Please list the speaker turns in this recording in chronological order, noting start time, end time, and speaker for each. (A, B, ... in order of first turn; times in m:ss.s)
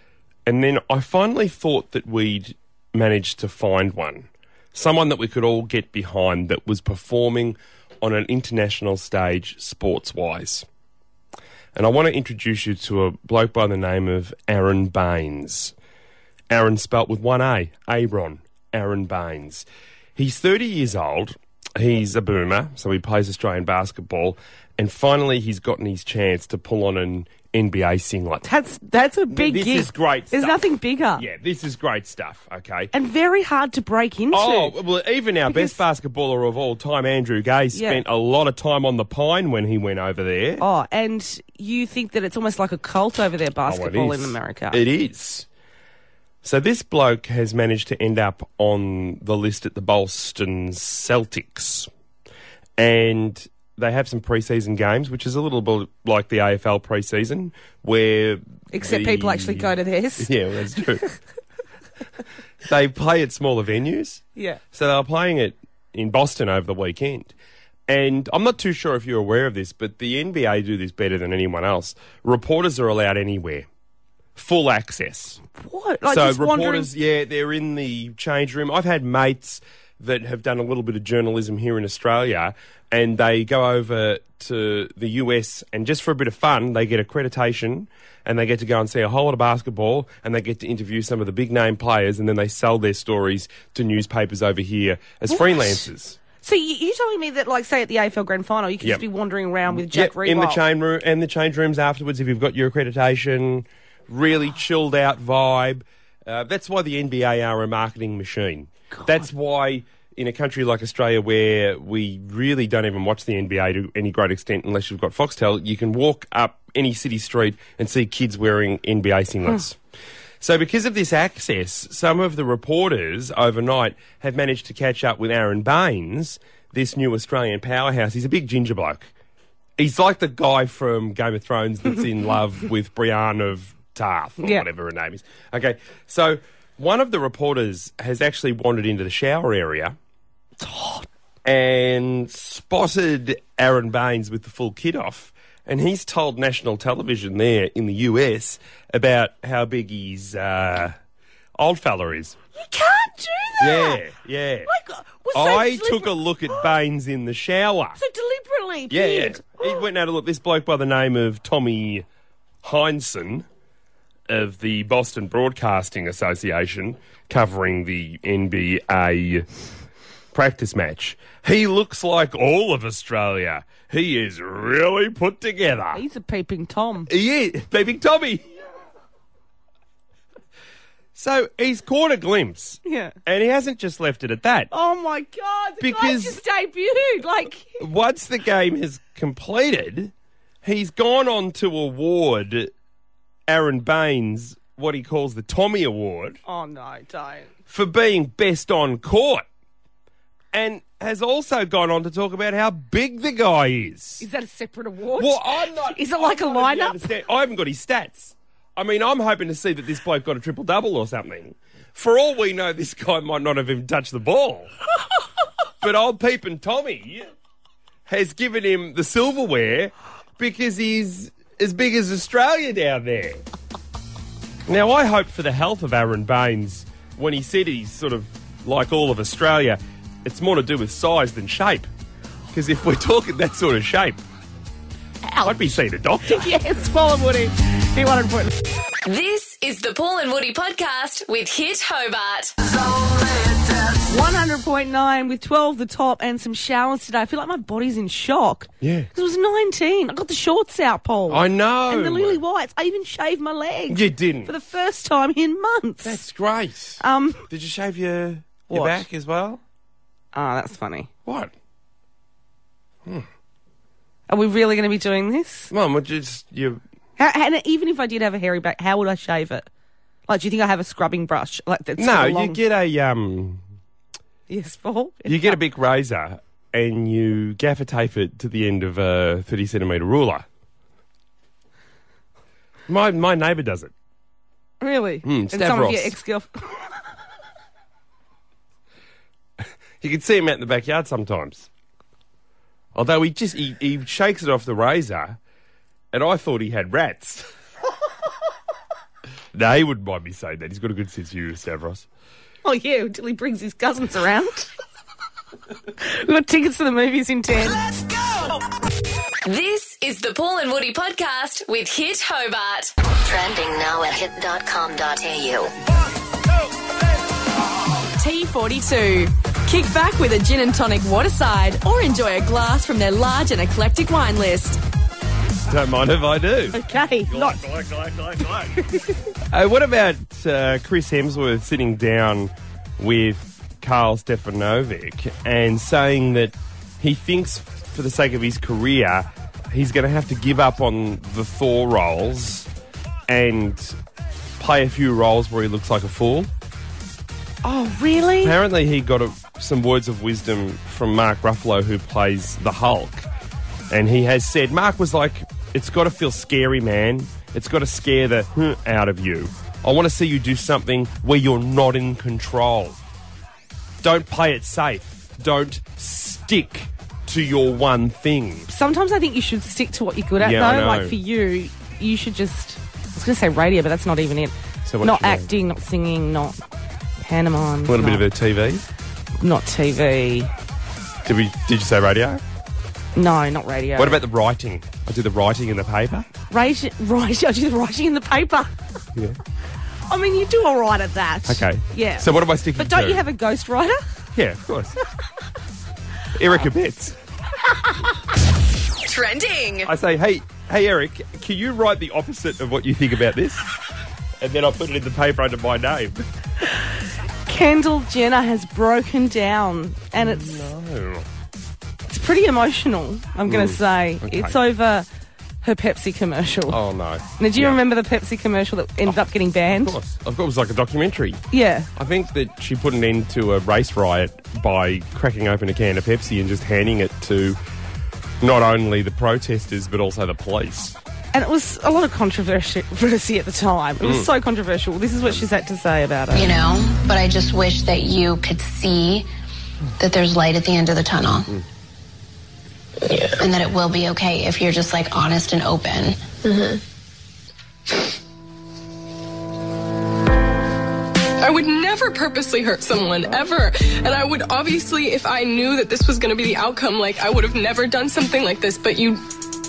0:00.5-0:10.7 A
0:11.8-0:15.7 A
0:16.5-0:28.4 A
0:28.4-0:31.2 B
0:29.3-0:30.6 A
0:31.2-0:32.9 A
0:32.9-0:34.8 B
0:34.3-0:40.6 A
0:35.5-0:35.8 B
0:37.7-0:38.0 B
0:40.6-0:44.8 B
0:43.6-0:45.5 A
0:46.4-0:51.9 A
0:52.8-1:01.0 A
0:58.7-1:00.3 B
1:02.6-1:07.3 A
1:04.4-1:04.6 B
1:07.9-1:13.7 A
1:14.4-1:15.4 A
1:15.6-1:16.9 B
1:16.1-1:36.2 A
1:35.3-1:35.8 B
1:36.4-1:40.6 B
1:39.7-1:59.8 A
1:48.9-1:49.3 B
2:00.4-2:09.1 A
2:09.8-2:20.0 A
2:20.6-2:21.1 B
2:21.4-2:31.0 A
2:31.6-2:32.4 A
2:32.6-2:34.0 B
2:33.6-2:34.7 A
2:34.7-2:36.7 B
2:35.3-2:38.0 A
2:38.0-2:39.8 B
2:38.9-2:42.1 A
2:42.6-2:43.5 A
2:44.3-2:49.5 A
2:50.3-2:56.0 A
2:55.9-2:57.1 B
2:57.1-2:58.4 A
3:01.2-3:04.7 A
3:02.8-3:03.2 B
3:04.7-3:07.8 B
3:05.8-3:06.4 A
3:07.8-3:10.1 A
3:10.6-3:12.7 A
3:13.5-3:16.4 A
3:16.5-3:17.5 B
3:17.7-3:19.5 A
3:20.5-3:24.3 A
3:24.2-3:27.1 B
3:25.2-3:34.7 A
3:35.8-3:37.3 A
3:38.1-3:43.4 A
3:44.7-3:51.9 A
3:52.5-3:54.2 A
3:55.3-3:55.6 B
3:55.4-3:56.5 A
3:56.3-3:58.6 B
3:59.0-4:02.5 C
4:04.1-4:16.2 B
4:08.8-4:09.1 A
4:11.3-4:12.4 A
4:13.9-4:14.5 A
4:16.0-4:19.6 A
4:17.0-4:17.4 B
4:18.7-4:19.0 B
4:20.3-4:21.1 B
4:21.3-4:21.5 A
4:24.3-4:25.7 B
4:25.7-4:26.8 A
4:27.2-4:29.7 B
4:30.3-4:32.6 B
4:32.0-4:33.6 A
4:34.5-4:35.6 B
4:35.3-4:40.5 A
4:42.9-4:43.9 A
4:44.8-4:46.8 B
4:45.2-4:46.2 A
4:49.6-4:51.7 A
4:53.0-4:55.4 A
4:56.1-4:57.4 A
4:59.5-5:02.1 A
5:02.6-5:04.7 B
5:06.0-5:07.8 B
5:09.4-5:12.9 C
5:13.2-5:15.7 D
5:18.2-5:24.8 E
5:25.7-5:28.8 A
5:26.7-5:27.6 B
5:29.5-5:42.7 A
5:43.3-5:44.0 A
5:44.6-5:46.5 A
5:47.6-5:48.6 B
5:48.4-5:53.3 A
5:53.9-6:03.0 A
6:04.0-6:08.7 A
6:08.7-6:16.6 B
6:10.4-6:11.2 A
6:14.9-6:15.5 A
6:17.2-6:18.2 B
6:17.9-6:18.8 A
6:19.4-6:20.5 B
6:21.2-6:22.4 A
6:23.2-6:24.2 B
6:24.0-6:26.3 A
6:26.5-6:28.7 B
6:30.1-6:34.1 B
6:31.5-6:33.3 A
6:34.4-6:35.0 A
6:36.4-6:37.2 A
6:39.0-6:39.9 E
6:39.8-6:43.7 A
6:44.4-6:46.3 A
6:47.5-6:50.6 B
6:50.2-6:51.3 A
6:52.1-6:55.1 B
6:53.5-6:54.6 A
6:55.6-6:56.8 B
6:56.7-6:57.8 A
6:57.4-7:00.0 B
6:59.7-7:01.4 A
7:01.5-7:01.9 B
7:02.0-7:07.6 A
7:08.4-7:11.0 A
7:11.3-7:16.5 B
7:14.0-7:14.3 A
7:16.3-7:19.3 F
7:20.0-7:21.5 F
7:23.4-7:26.2 F
7:31.4-7:39.2 G